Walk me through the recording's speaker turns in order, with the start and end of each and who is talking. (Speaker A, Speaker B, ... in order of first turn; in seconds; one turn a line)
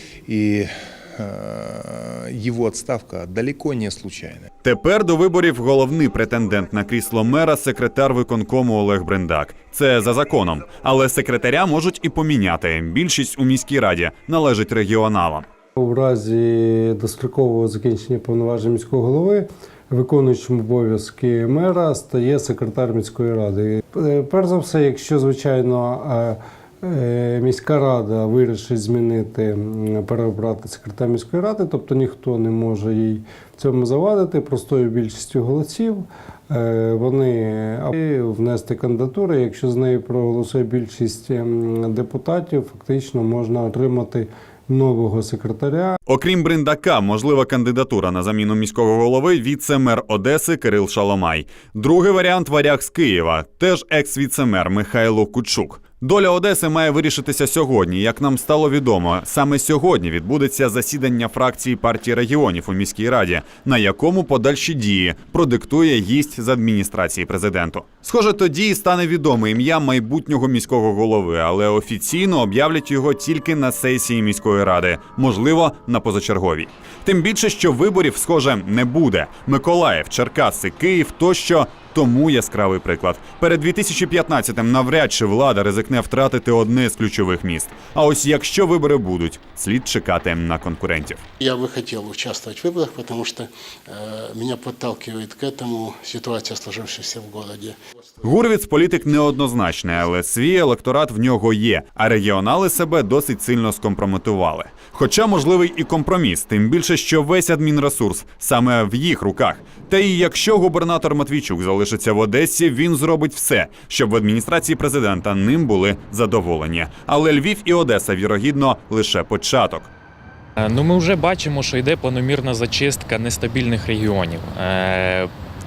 Speaker A: 0.3-4.5
Speaker B: 4.6-15.5
Speaker C: 15.8-46.0
Speaker B: 46.1-91.2
Speaker D: 91.4-97.8
Speaker B: 98.2-119.9
Speaker E: 120.6-125.3